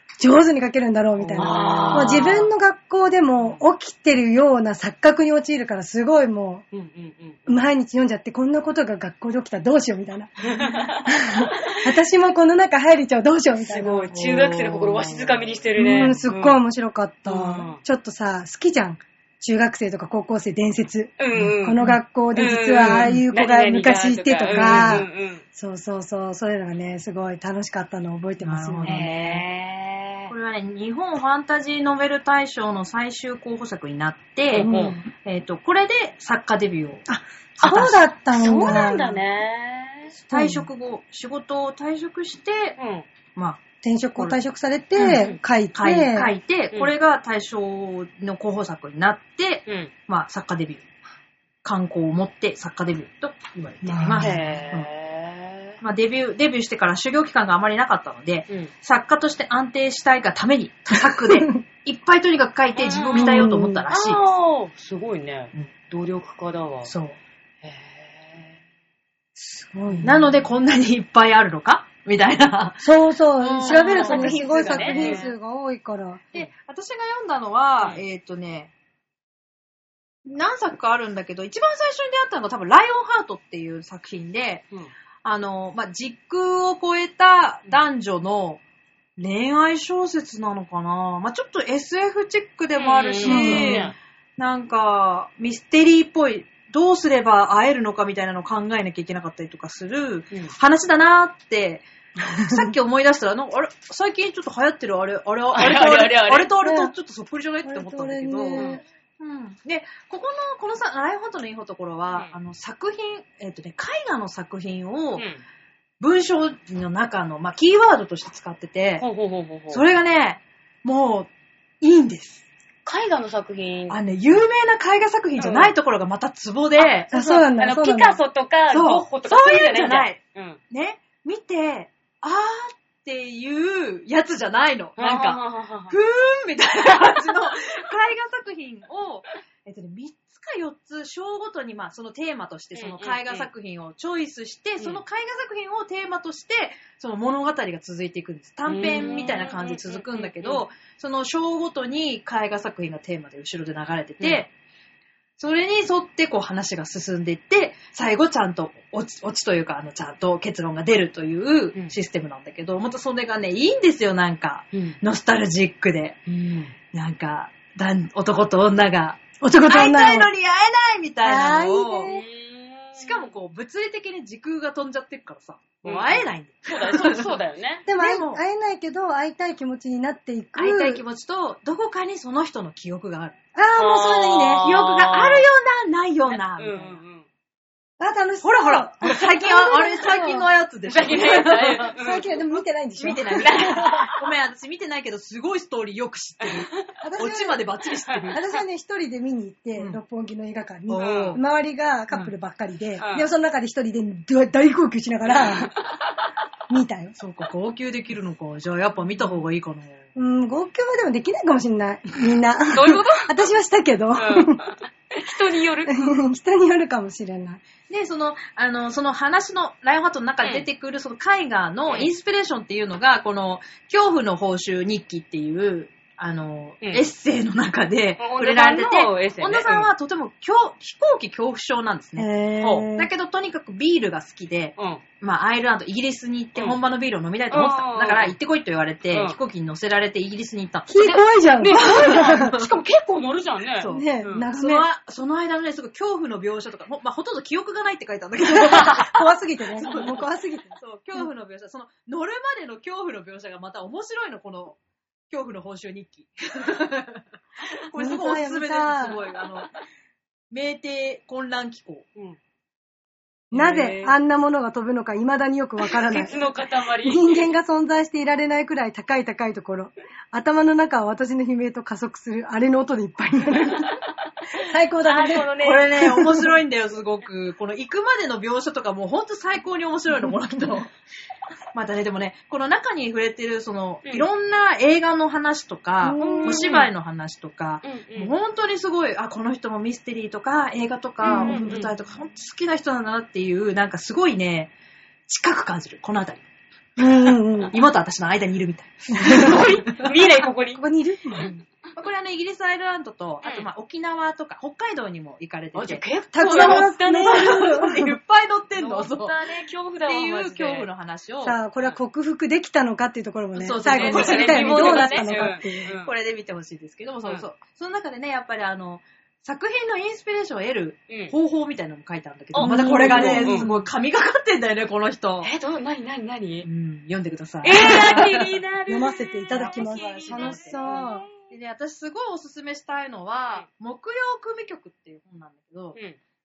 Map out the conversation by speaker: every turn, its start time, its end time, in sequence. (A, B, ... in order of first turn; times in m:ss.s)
0:00.2-0:06.6 A
0:01.2-0:02.4 B
0:01.4-0:02.5 C
0:06.7-0:07.5 C
0:07.5-0:10.3 A
0:10.4-0:11.6 C
0:11.0-0:14.1 A
0:13.7-0:16.6 C
0:14.0-0:16.2 B
0:15.8-0:29.4 A
0:17.3-0:17.8 C
0:21.2-0:25.4 C
0:21.3-0:22.0 B
0:22.9-0:23.2 B
0:24.5-0:25.0 B
0:28.4-0:29.4 B
0:28.8-0:30.3 C
0:30.3-0:37.0 B
0:34.5-0:35.0 C
0:34.6-0:35.1 A
0:37.1-0:39.2 A
0:37.6-0:38.0 B
0:38.3-0:40.2 C
0:40.3-0:42.8 B
0:40.3-0:40.7 A
0:42.8-0:43.1 C
0:43.4-0:43.6 B
0:43.8-0:46.3 A
0:45.0-0:50.8 B
0:45.0-0:45.4 C
0:51.6-0:54.9 B
0:53.8-0:54.5 A
0:54.1-0:55.8 C
0:55.8-1:04.2 B
1:02.8-1:06.9 C
1:03.2-1:03.8 A
1:06.8-1:07.2 B
1:07.6-1:08.6 C
1:09.4-1:10.2 A
1:10.0-1:12.9 B
1:12.8-1:16.2 A
1:13.4-1:15.3 B
1:13.6-1:15.3 C
1:16.3-1:18.7 B
1:20.2-1:24.6 B
1:25.2-1:28.6 B
1:29.2-1:41.8 B
1:32.8-1:34.0 C
1:33.2-1:33.9 A
1:42.4-1:55.2 B
1:45.5-1:46.5 C
1:46.6-1:46.9 A
1:47.7-1:48.8 A
1:48.6-1:48.8 C
1:55.2-1:55.4 C
1:56.0-1:59.1 B
1:59.0-1:59.8 C
1:59.7-2:01.3 B
2:01.8-2:02.4 B
2:02.9-2:04.0 C
2:03.9-2:07.1 B
2:05.4-2:05.7 C
2:06.8-2:10.6 C
2:07.1-2:08.2 A
2:08.7-2:34.5 B
2:15.0-2:15.9 C
2:22.8-2:23.5 C
2:28.7-2:30.6 C
2:35.4-2:46.2 B
2:46.3-2:46.7 C
2:46.9-2:52.1 B
2:49.4-2:50.3 A
2:51.2-2:52.2 A
2:52.0-2:53.3 C
2:53.0-2:57.4 B
2:55.8-2:57.8 C
2:57.9-3:01.0 A
2:57.9-2:58.4 B
3:00.6-3:03.4 B
3:03.6-3:04.7 A
3:03.8-3:05.4 C
3:04.6-3:07.0 B
3:06.3-3:07.2 C
3:08.0-3:10.5 A
3:08.4-3:11.9 B
3:10.9-3:12.4 C
3:11.9-3:14.1 A
3:13.0-3:18.4 B
3:13.4-3:14.1 C
3:16.4-3:16.8 C
3:17.0-3:17.6 A
3:18.1-3:18.3 C
3:18.3-3:25.7 A
3:19.8-3:20.0 B
3:20.9-3:21.4 B
3:20.9-3:21.4 C
3:23.0-3:23.3 C
3:25.4-3:26.2 C
3:26.7-3:27.2 A
3:27.2-3:30.1 B
3:30.2-3:34.6 A
3:32.7-3:33.5 C
3:34.2-3:36.1 C
3:35.9-3:37.6 A
3:37.9-3:52.3 B
3:48.2-3:49.9 C
3:52.2-3:53.1 A
3:52.6-3:52.9 C
3:53.0-4:00.9 B
3:57.5-3:58.4 C
4:00.9-4:02.5 A
4:01.0-4:04.5 C
4:01.7-4:02.8 B
4:03.8-4:14.8 B
4:03.9-4:04.8 A
4:08.5-4:11.2 A
4:15.3-4:19.7 B
4:18.0-4:19.2 A
4:20.5-4:22.1 B
4:23.5-4:26.3 A
4:23.5-4:24.2 C
4:25.8-4:27.5 C
4:27.0-4:34.0 A
4:34.5-4:35.5 A
4:35.0-4:36.2 C
4:35.6-4:40.9 B
4:36.0-4:36.4 A
4:41.7-4:54.7 B
4:46.0-4:46.7 A
4:46.2-4:46.9 C
4:47.8-4:48.3 C
4:51.2-4:51.8 A
4:51.2-4:51.9 C
4:55.3-4:56.4 B
4:57.0-4:57.7 A
4:57.7-5:00.1 B
4:59.1-4:59.7 A
4:59.2-5:00.8 C
5:00.7-5:01.6 A
5:02.0-5:09.5 B
5:05.7-5:07.8 C
5:06.3-5:08.1 A
5:08.8-5:10.9 C
5:10.1-5:11.6 B
5:11.4-5:15.9 A
5:13.6-5:25.5 B
5:13.8-5:16.1 C
5:21.1-5:21.3 C
5:22.5-5:23.7 C
5:22.6-5:23.9 A
5:25.4-5:26.7 C
5:26.6-5:28.5 B
5:27.6-5:31.3 C
5:27.7-5:28.2 A
5:28.9-5:31.3 A
5:29.5-5:36.0 B